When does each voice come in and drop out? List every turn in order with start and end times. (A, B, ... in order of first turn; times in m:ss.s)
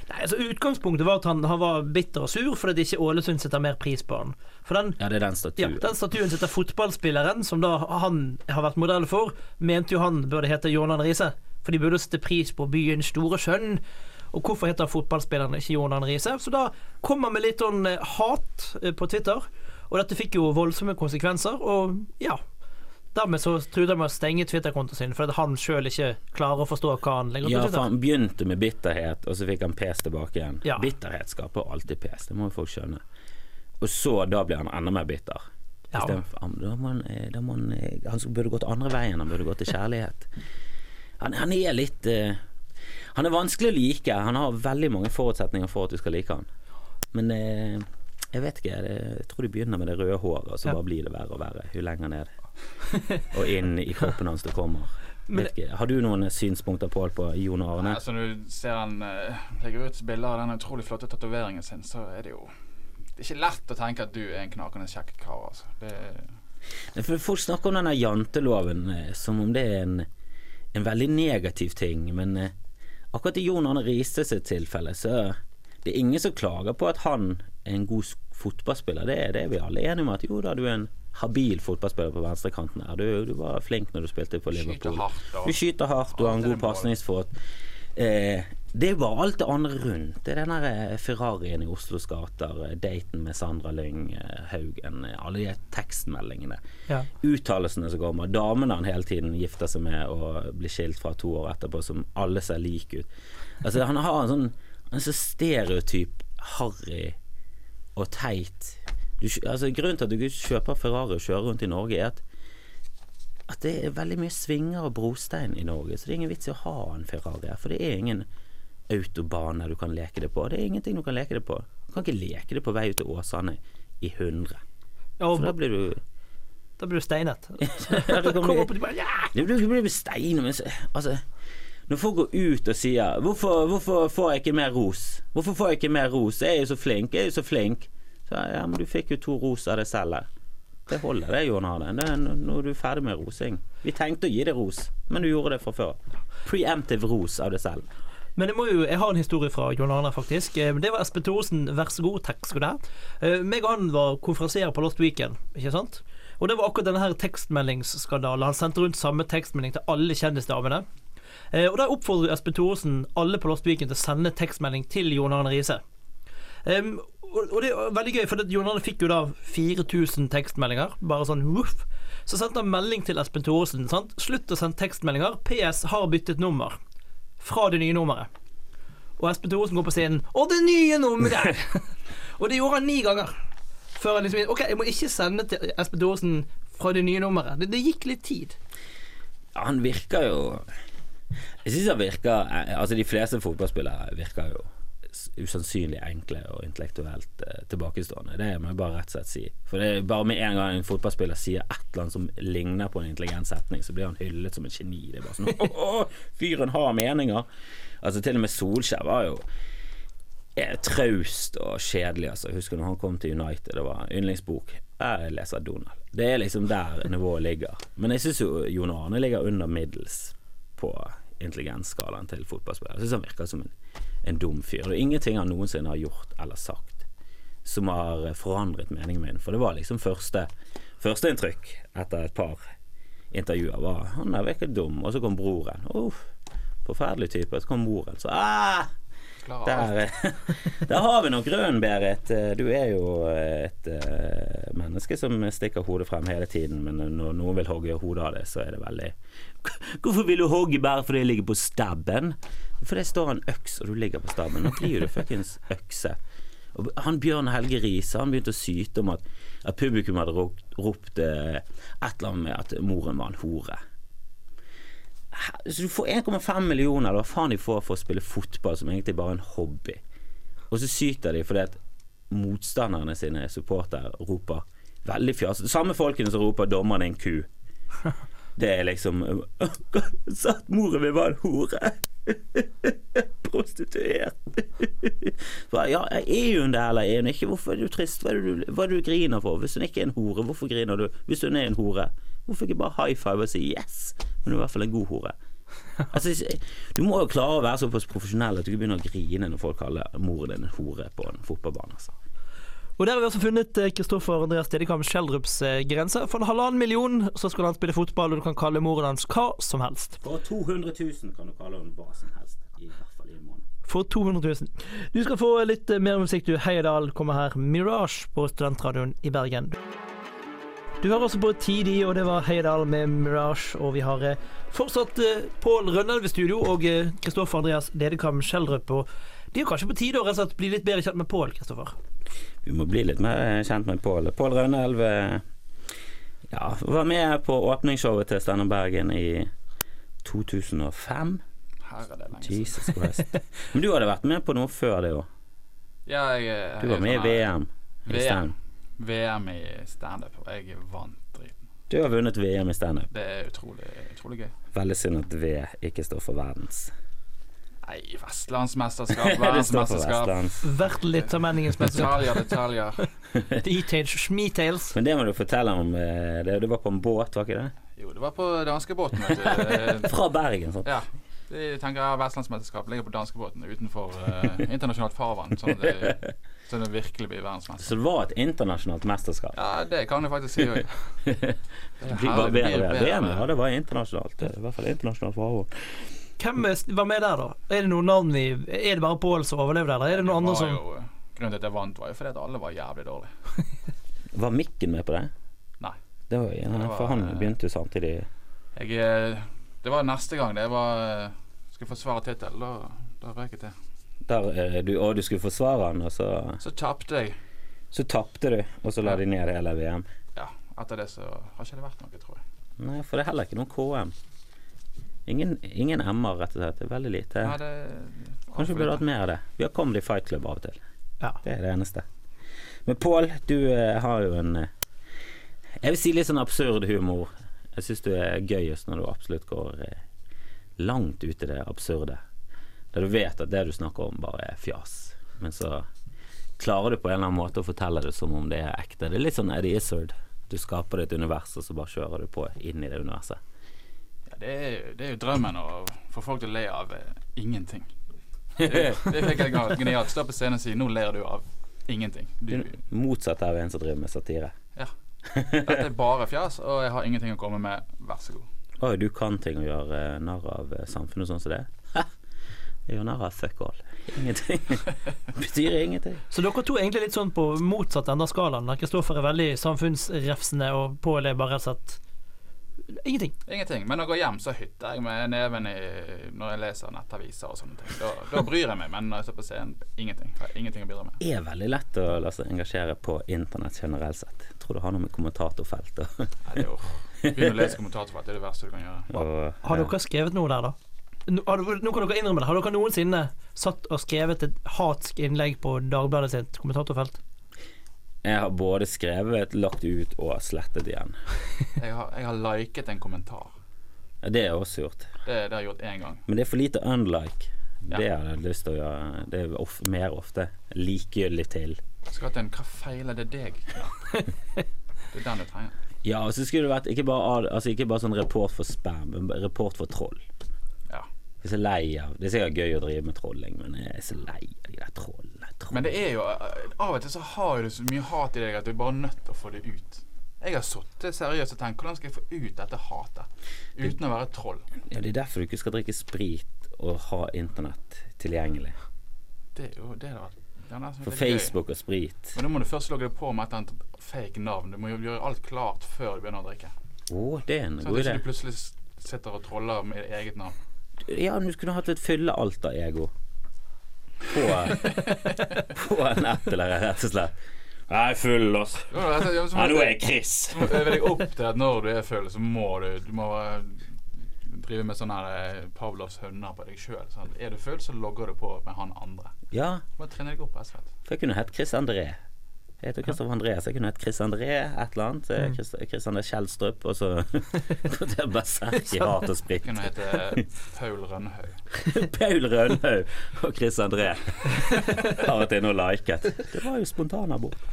0:00.1-0:05.0 A
0:05.0-0:05.9 B
0:05.6-0:13.8 A
0:14.3-0:22.4 A
0:23.1-0:27.9 A
0:27.4-0:33.0 B
0:33.8-0:35.4 B
0:36.0-0:40.3 B
0:41.2-0:42.4 B
0:43.1-0:46.5 B
0:47.1-0:52.3 B
0:53.2-0:58.0 B
0:57.8-1:02.5 C
1:03.2-1:06.3 C
1:06.9-1:10.1 B
1:10.7-1:12.5 B
1:13.1-1:27.3 B
1:24.5-1:25.6 C
1:26.1-1:26.9 C
1:28.0-1:36.6 B
1:37.1-1:43.1 B
1:43.6-1:47.2 B
1:48.0-1:52.2 B
1:53.5-1:58.2 B
1:58.9-2:04.6 B
2:05.2-2:05.5 A
2:05.3-2:06.0 B
2:06.8-2:09.3 A
2:07.6-2:08.8 B
2:09.3-2:11.2 B
2:11.9-2:20.3 B
2:20.9-2:27.9 B
2:28.4-2:40.9 A
2:41.5-2:45.8 A
2:46.6-2:56.8 A
2:57.4-2:58.3 A
2:59.2-3:03.4 A
3:04.0-3:08.6 A
3:09.6-3:10.7 B
3:11.6-3:27.5 B
3:28.0-3:29.4 B
3:30.6-3:43.7 B
3:44.2-3:47.1 B
3:47.6-3:50.5 B
3:51.0-3:52.7 B
3:53.3-3:56.3 B
3:56.8-3:58.9 B
3:59.4-4:00.0 C
3:59.6-4:16.2 B
4:16.7-4:23.8 B
4:25.3-4:30.0 B
4:30.7-4:31.8 B
4:32.3-4:37.5 B
4:38.6-4:55.4 B
4:56.1-5:02.1 B
5:03.0-5:10.2 A
5:10.2-5:13.6 B
5:13.9-5:19.8 A
5:21.0-5:32.0 A
5:32.6-5:35.4 B
5:36.5-5:39.5 B
5:40.2-5:41.4 B
5:41.8-5:43.0 C
5:42.4-5:45.3 B
5:46.1-5:47.5 C
5:46.8-5:48.5 B
5:48.0-5:51.6 C
5:51.9-5:53.1 B
5:53.1-5:54.6 C
5:54.7-5:56.9 B
5:57.8-6:00.7 C
5:59.1-6:00.6 B
6:00.6-6:02.2 A
6:01.2-6:03.1 C
6:03.6-6:05.0 A
6:04.9-6:07.7 B
6:08.0-6:10.1 C
6:09.4-6:10.9 B
6:10.8-6:17.9 C
6:17.8-6:19.6 B
6:19.5-6:21.1 C
6:21.2-6:26.1 B
6:22.0-6:23.5 C
6:26.4-6:30.8 A
6:30.1-6:33.3 C
6:34.3-6:35.3 B
6:36.3-6:38.3 B
6:36.7-6:37.5 C
6:38.8-6:43.8 C
6:44.2-6:46.6 B
6:46.6-6:47.4 C
6:47.9-6:50.1 B
6:50.4-6:52.4 C
6:52.8-6:54.1 B
6:55.3-6:57.6 B
6:57.4-6:59.0 C
6:58.6-7:00.8 B
7:01.4-7:02.1 B
7:02.8-7:04.7 B
7:05.8-7:10.0 B
7:10.8-7:12.2 B
7:12.9-7:15.9 B
7:16.6-7:23.4 B
7:24.3-7:27.9 C
7:28.6-7:32.8 C
7:28.6-7:29.0 B
7:32.5-7:34.5 B
7:35.3-7:35.8 B
7:35.5-7:38.5 C
7:38.8-7:42.1 B
7:42.9-7:46.2 B
7:46.3-7:52.0 A
7:52.9-7:53.3 A
7:53.5-8:01.2 C
8:01.2-8:06.3 B
8:06.4-8:09.3 C
8:07.2-8:07.7 B
8:09.1-8:09.9 B
8:09.6-8:10.8 A
8:11.3-8:17.2 A
8:18.2-8:21.2 B
8:21.8-8:23.6 C
8:24.2-8:25.1 B
8:25.2-8:26.2 C
8:26.3-8:31.8 B
8:32.1-8:34.3 C
8:35.1-8:35.8 C
8:36.0-8:40.2 B
8:41.4-8:45.9 B
8:45.7-8:54.6 C
8:54.9-8:58.8 B
8:59.6-9:01.6 C
9:01.0-9:02.3 B
9:02.3-9:06.7 C
9:07.1-9:08.2 B
9:07.8-9:10.6 C
9:11.0-9:13.1 B
9:14.3-9:17.3 B
9:14.8-9:15.5 C
9:17.9-9:21.0 B
9:18.9-9:20.0 C
9:20.5-9:29.3 C
9:29.5-9:29.8 B
9:30.0-9:30.9 C
9:31.0-9:32.2 B
9:32.8-9:40.4 B
9:38.9-9:39.2 A
9:39.6-9:41.6 C
9:41.8-9:47.6 B